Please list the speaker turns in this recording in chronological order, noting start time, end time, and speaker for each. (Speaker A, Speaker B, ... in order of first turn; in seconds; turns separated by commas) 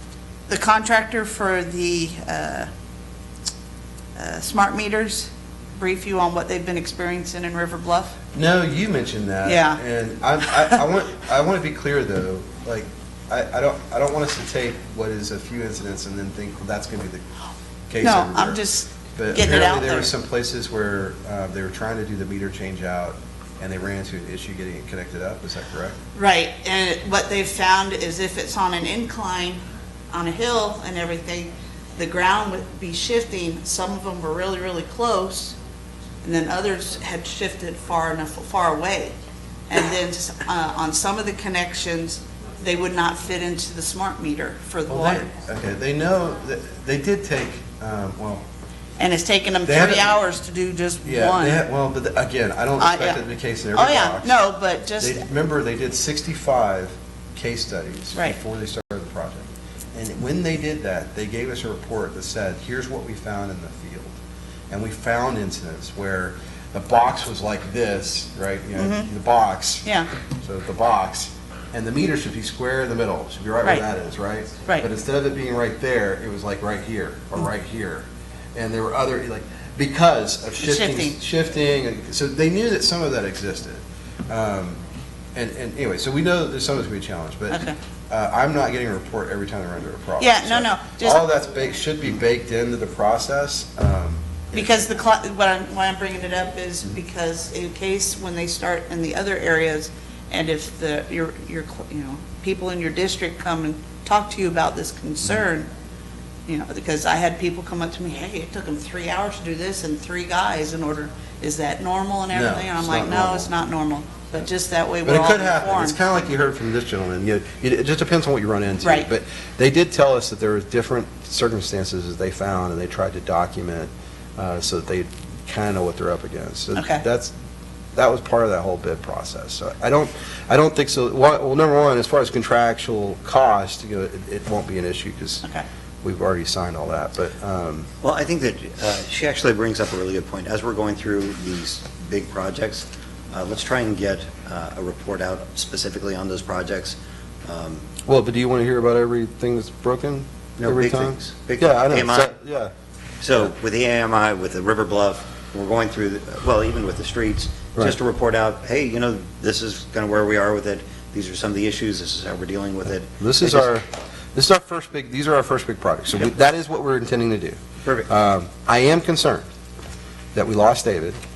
Speaker A: 0.5-2.7, Speaker A: 4.2-8.2, Speaker B: 8.3-17.2, Speaker A: 9.4-9.8, Speaker B: 17.9-18.6, Speaker A: 18.0-20.1, Speaker B: 19.1-26.0, Speaker A: 26.1-35.6, Speaker A: 36.2-39.1, Speaker A: 39.7-45.3, Speaker B: 44.9-48.4, Speaker A: 49.0-51.6, Speaker B: 49.7-50.2, Speaker B: 51.0-54.4, Speaker A: 52.8-53.2, Speaker A: 53.7-55.2, Speaker B: 55.0-64.1, Speaker B: 64.7-69.9, Speaker A: 68.8-69.1, Speaker A: 69.8-70.1, Speaker B: 70.4-84.8, Speaker A: 80.6-81.2, Speaker B: 85.3-94.7, Speaker A: 87.5-87.8, Speaker A: 90.2-91.3, Speaker A: 94.5-105.7, Speaker A: 106.5-116.0, Speaker B: 112.3-113.5, Speaker B: 115.0-127.3, Speaker A: 118.8-119.1, Speaker A: 126.8-127.0, Speaker B: 128.0-135.4, Speaker B: 136.0-137.9, Speaker C: 138.0-147.9, Speaker B: 148.1-152.7, Speaker C: 150.6-152.3, Speaker C: 153.2-163.7, Speaker B: 163.2-169.5, Speaker B: 170.3-171.2